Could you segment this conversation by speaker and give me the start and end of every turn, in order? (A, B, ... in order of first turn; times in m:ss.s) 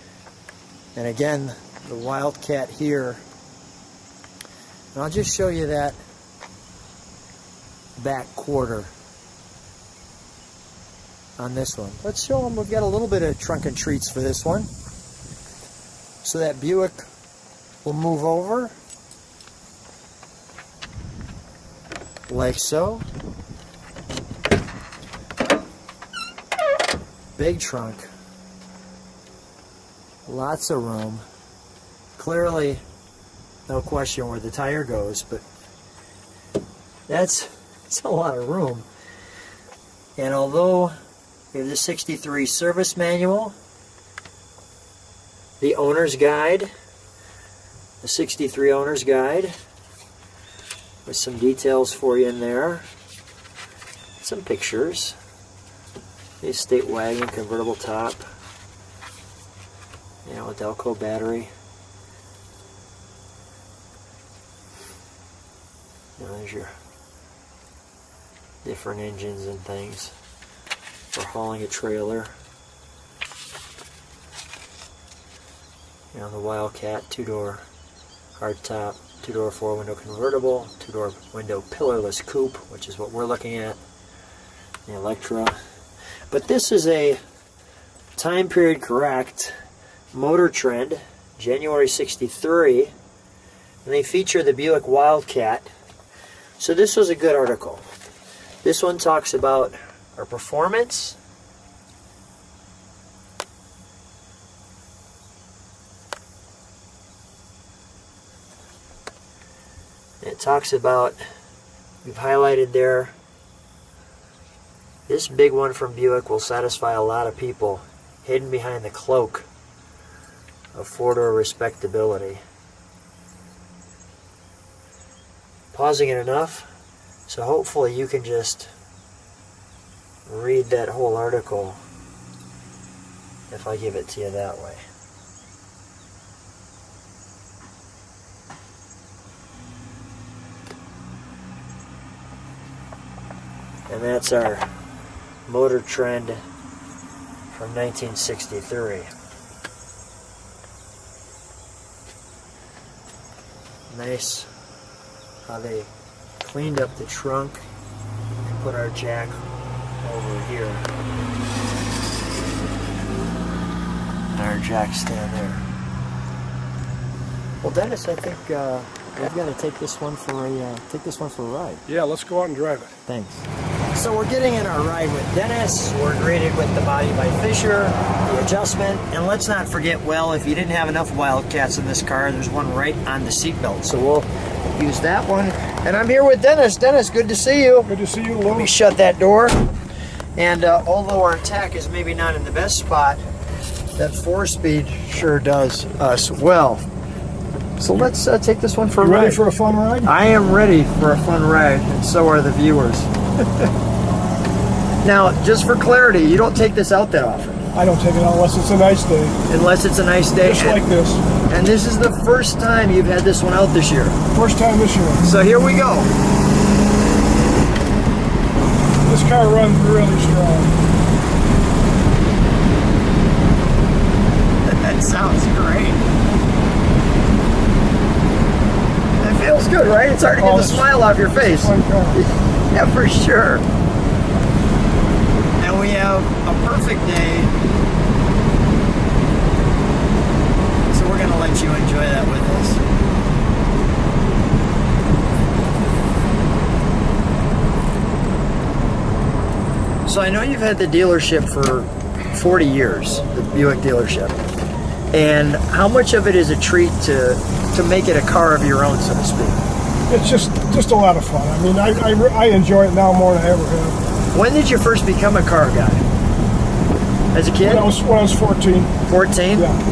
0:01.0-0:03.2 A
0:04.9-0:06.0 A
0:08.0-0:08.9 A
0:11.4-0:14.7 A
0:16.2-0:17.0 A
0:17.8-0:18.7 A
0:22.3-0:23.0 A
0:27.4-0:28.1 A
0:30.2-0:31.2 A
0:32.2-0:32.8 A
0:33.7-0:35.4 A
0:37.1-0:38.9 A
0:40.2-0:40.9 A
0:41.5-0:43.5 A
0:45.6-0:46.7 A
0:48.0-0:49.5 A
0:51.0-0:52.9 A
0:54.2-0:55.2 A
0:56.4-0:58.2 A
1:00.2-1:01.5 A
1:06.2-1:06.7 A
1:08.6-1:10.1 A
1:11.1-1:12.3 A
1:16.1-1:17.6 A
1:18.4-1:23.8 A
1:24.8-1:25.6 A
1:26.3-1:27.2 A
1:28.2-1:29.5 A
1:30.1-1:32.9 A
1:33.8-1:35.7 A
1:36.6-1:37.8 A
1:38.6-1:41.2 A
1:50.2-1:51.2 A
1:52.0-1:53.1 A
1:55.1-1:59.5 A
2:00.7-2:02.4 A
2:05.7-2:06.7 A
2:07.3-2:08.7 A
2:10.3-2:11.8 A
2:13.5-2:14.8 A
2:23.9-2:24.7 A
2:25.5-2:26.4 A
2:27.5-2:29.1 A
2:33.9-2:34.5 A
2:35.4-2:37.6 A
2:38.4-2:39.4 A
2:40.0-2:40.9 A
2:44.3-2:45.6 A
2:47.6-2:51.8 A
2:51.9-2:53.0 B
2:53.1-3:07.9 A
3:07.8-3:08.7 B
3:08.5-3:09.6 A
3:10.4-3:13.2 A
3:14.0-3:16.8 A
3:17.8-3:19.4 A
3:19.0-3:20.1 B
3:20.0-3:23.1 A
3:25.0-3:27.6 A
3:27.7-3:29.4 B
3:29.5-3:30.8 A
3:30.4-3:31.2 B
3:31.4-3:34.2 A
3:34.3-3:35.2 B
3:35.2-3:36.1 A
3:39.0-3:40.8 B
3:44.6-3:46.0 A
3:49.2-3:53.6 A
3:50.4-3:52.2 B
3:55.6-3:57.5 A
4:00.9-4:02.8 A
4:10.0-4:14.4 A
4:15.1-4:19.6 A
4:20.1-4:24.0 B
4:24.3-4:26.0 A
4:27.3-4:27.9 A
4:27.6-4:28.9 B
4:29.1-4:29.7 A